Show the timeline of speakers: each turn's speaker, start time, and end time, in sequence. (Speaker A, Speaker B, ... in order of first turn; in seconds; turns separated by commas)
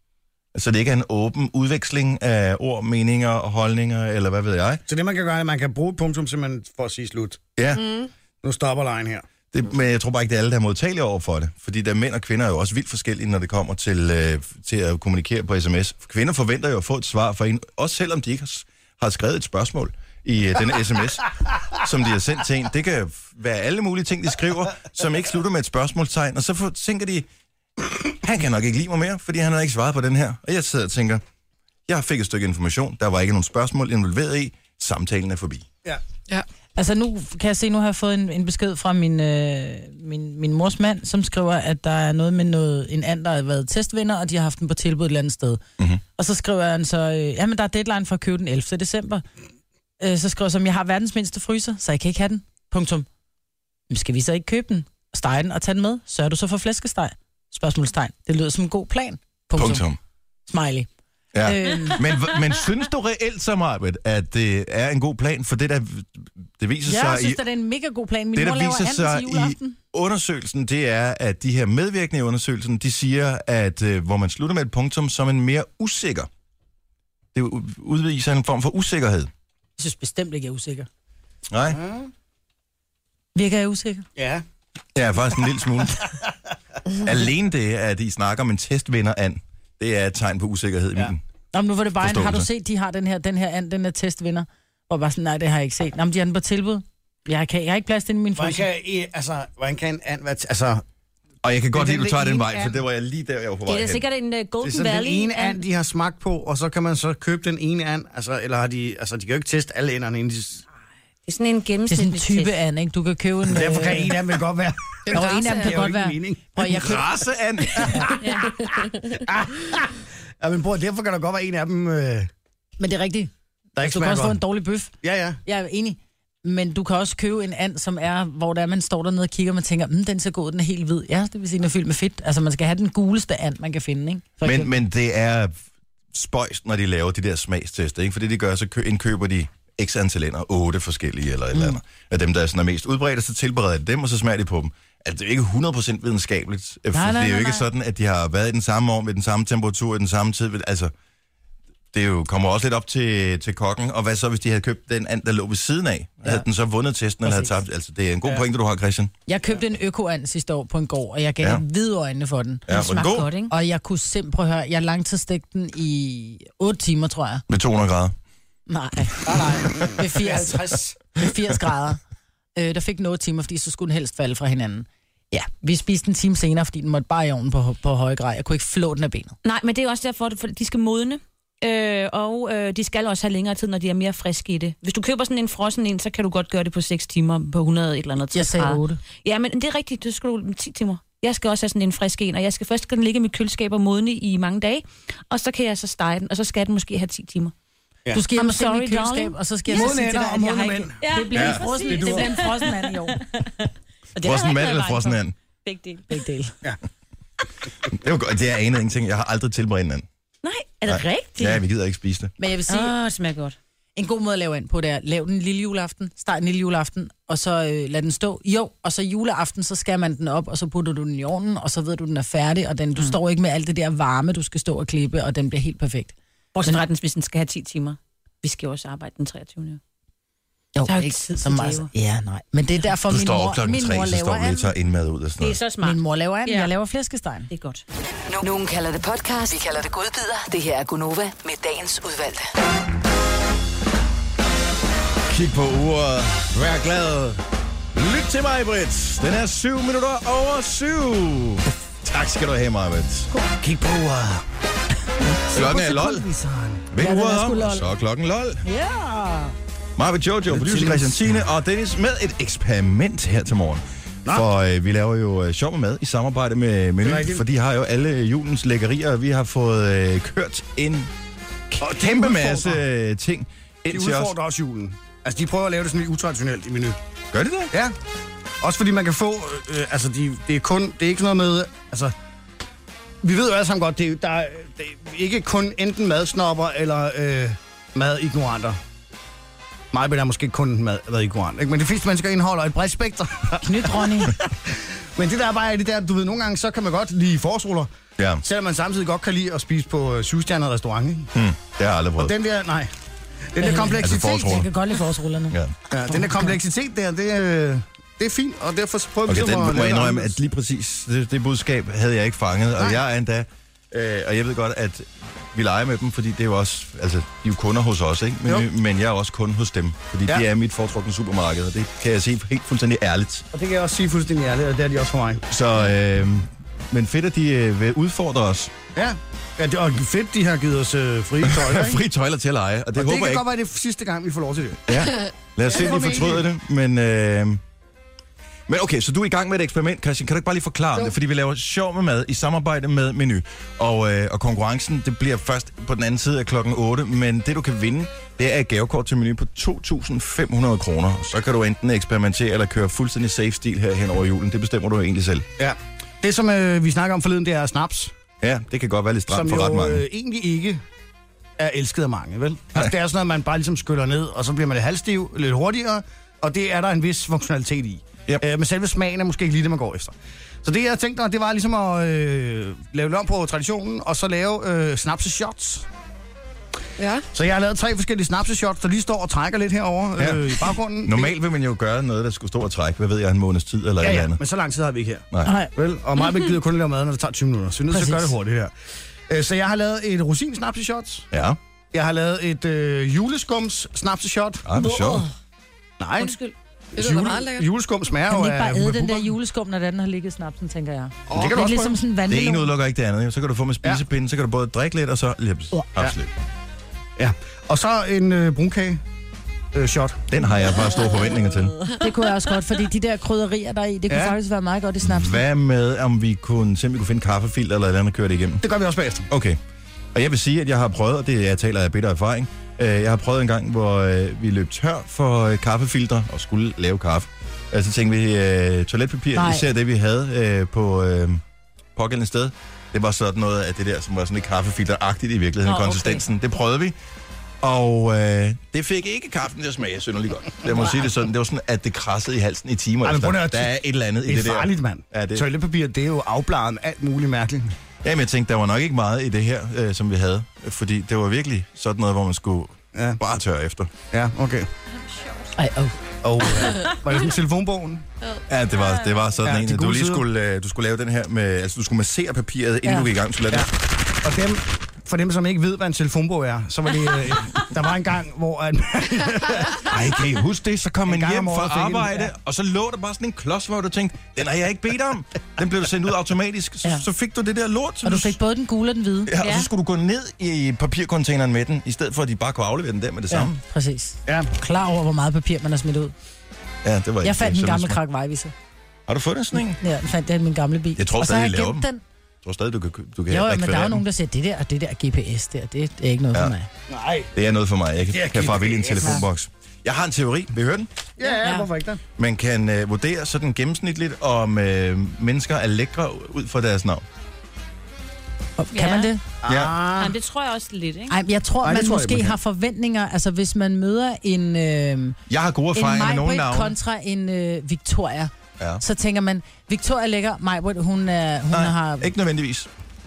Speaker A: 0.5-4.8, Speaker B: 4.9-7.4, Speaker A: 7.6-7.8, Speaker C: 7.7-8.1, Speaker B: 8.4-9.2, Speaker A: 9.5-27.3, Speaker A: 28.1-31.2, Speaker A: 31.9-35.7, Speaker D: 36.8-45.6, Speaker D: 46.1-49.2, Speaker D: 50.0-53.1, Speaker D: 53.9-59.8, Speaker A: 59.5-60.0, Speaker D: 60.5-60.9, Speaker A: 61.3-67.4, Speaker D: 61.4-62.0, Speaker D: 66.8-69.8, Speaker A: 68.3-76.3, Speaker A: 77.3-79.3, Speaker D: 79.8-80.9, Speaker A: 81.5-81.8, Speaker B: 81.7-82.1, Speaker D: 83.3-84.0, Speaker B: 84.2-84.4, Speaker A: 84.9-86.0, Speaker A: 87.0-91.2, Speaker D: 91.5-98.7, Speaker A: 92.0-92.5, Speaker B: 98.3-100.8, Speaker A: 101.4-104.0, Speaker B: 101.7-102.8, Speaker E: 103.7-105.6, Speaker B: 104.6-110.6, Speaker E: 111.2-112.5, Speaker D: 111.9-114.1, Speaker B: 113.5-116.8, Speaker C: 115.0-115.8, Speaker D: 115.1-117.1, Speaker A: 116.7-118.1, Speaker B: 117.8-118.2, Speaker D: 117.8-118.1, Speaker E: 118.2-118.5, Speaker B: 119.1-122.3, Speaker D: 122.8-124.9, Speaker B: 123.8-124.4, Speaker B: 125.0-125.4, Speaker D: 125.4-134.8, Speaker A: 134.4-135.5, Speaker A: 136.1-150.9, Speaker D: 141.5-141.8, Speaker D: 146.9-147.7, Speaker A: 151.9-159.1, Speaker D: 157.2-157.5, Speaker D: 159.3-162.7, Speaker A: 162.7-163.3, Speaker E: 162.7-163.5, Speaker D: 163.5-167.4, Speaker A: 167.5-168.1, Speaker D: 168.7-170.6, Speaker B: 169.2-171.0, Speaker D: 171.2-172.0, Speaker D: 172.6-179.3, Speaker E: 179.4-197.5, Speaker D: 188.3-189.0, Speaker D: 198.1-203.2, Speaker E: 198.3-199.9, Speaker B: 199.7-201.1, Speaker E: 201.0-206.2, Speaker A: 201.3-201.6, Speaker B: 201.8-202.3, Speaker A: 204.2-205.3, Speaker D: 206.1-206.6, Speaker A: 207.9-210.1, Speaker E: 210.4-211.6, Speaker A: 210.9-212.3, Speaker D: 212.4-212.9, Speaker E: 212.7-213.6, Speaker D: 213.9-226.8, Speaker E: 226.5-229.8, Speaker D: 230.7-234.7, Speaker E: 230.9-231.9, Speaker A: 233.1-235.6, Speaker E: 235.4-236.7, Speaker D: 235.8-237.5, Speaker E: 237.5-237.8, Speaker F: 238.3-242.5, Speaker A: 245.3-247.4, Speaker A: 247.9-253.3, Speaker B: 253.6-254.4, Speaker B: 255.5-256.8, Speaker A: 255.5-256.3, Speaker A: 256.9-258.6, Speaker D: 256.9-257.9, Speaker D: 258.6-259.5, Speaker A: 260.0-271.1, Speaker B: 260.5-261.2, Speaker B: 267.0-267.4, Speaker A: 271.7-274.3, Speaker B: 271.8-272.8, Speaker B: 273.9-277.0, Speaker A: 277.3-277.7, Speaker B: 278.6-282.1, Speaker B: 283.2-288.8, Speaker B: 289.9-297.9, Speaker D: 293.6-294.3, Speaker A: 298.2-298.4, Speaker B: 298.4-301.3, Speaker A: 301.3-302.3, Speaker B: 302.2-302.9, Speaker B: 303.5-304.6, Speaker D: 303.6-305.6, Speaker A: 304.0-304.7, Speaker A: 305.5-305.8, Speaker B: 305.9-310.3, Speaker D: 306.1-306.5, Speaker A: 309.3-323.5, Speaker B: 323.5-325.4, Speaker A: 325.5-328.8, Speaker B: 328.9-332.0, Speaker A: 331.4-333.4, Speaker B: 332.9-334.9, Speaker A: 334.9-337.6, Speaker B: 335.6-336.4, Speaker A: 338.7-355.5, Speaker B: 355.6-358.1, Speaker A: 358.4-360.0, Speaker B: 359.3-360.8, Speaker B: 361.6-375.9, Speaker C: 377.0-377.3, Speaker B: 377.3-381.3, Speaker A: 380.2-384.4, Speaker B: 384.0-388.7, Speaker D: 385.4-385.7, Speaker D: 387.9-388.3, Speaker B: 389.3-391.2, Speaker A: 391.3-391.6, Speaker B: 391.9-394.7, Speaker A: 394.6-395.2, Speaker D: 394.8-395.2, Speaker B: 396.0-396.4, Speaker E: 396.2-396.5, Speaker C: 396.9-397.7, Speaker B: 396.9-399.3, Speaker D: 398.3-402.7, Speaker B: 401.3-402.0, Speaker C: 401.3-401.6, Speaker A: 402.3-406.3, Speaker B: 407.2-409.0, Speaker B: 409.7-410.2, Speaker A: 410.3-411.7, Speaker D: 411.9-415.4, Speaker B: 414.1-414.4, Speaker A: 415.0-418.6, Speaker B: 418.6-419.2, Speaker A: 419.3-419.6, Speaker A: 420.1-431.4, Speaker D: 429.3-429.6, Speaker A: 431.9-436.9, Speaker D: 435.7-436.1, Speaker A: 437.6-445.5, Speaker B: 443.0-447.7, Speaker A: 448.0-453.9, Speaker B: 454.1-454.7, Speaker E: 455.0-455.5, Speaker D: 455.6-456.4, Speaker B: 456.2-458.0, Speaker A: 458.5-463.7, Speaker E: 458.8-459.2, Speaker B: 459.4-460.2, Speaker B: 464.2-472.3, Speaker A: 469.9-478.4, Speaker D: 478.0-479.3, Speaker A: 479.2-483.6, Speaker E: 479.4-479.7, Speaker D: 483.3-486.1, Speaker B: 484.2-484.5, Speaker A: 486.8-488.0, Speaker D: 487.2-488.5, Speaker A: 489.1-489.8, Speaker D: 489.6-492.0, Speaker A: 491.0-491.9, Speaker A: 492.4-494.0, Speaker D: 493.3-496.7, Speaker B: 496.9-497.3, Speaker A: 497.3-501.0, Speaker B: 498.1-499.2, Speaker B: 501.2-502.0, Speaker E: 501.4-501.7, Speaker A: 502.1-507.0, Speaker D: 508.6-509.2, Speaker E: 508.7-509.1, Speaker B: 509.4-510.1, Speaker A: 509.5-509.8, Speaker E: 509.9-511.2, Speaker D: 511.1-515.2, Speaker B: 511.6-512.4, Speaker A: 515.3-516.8, Speaker D: 515.7-522.1, Speaker A: 521.5-522.7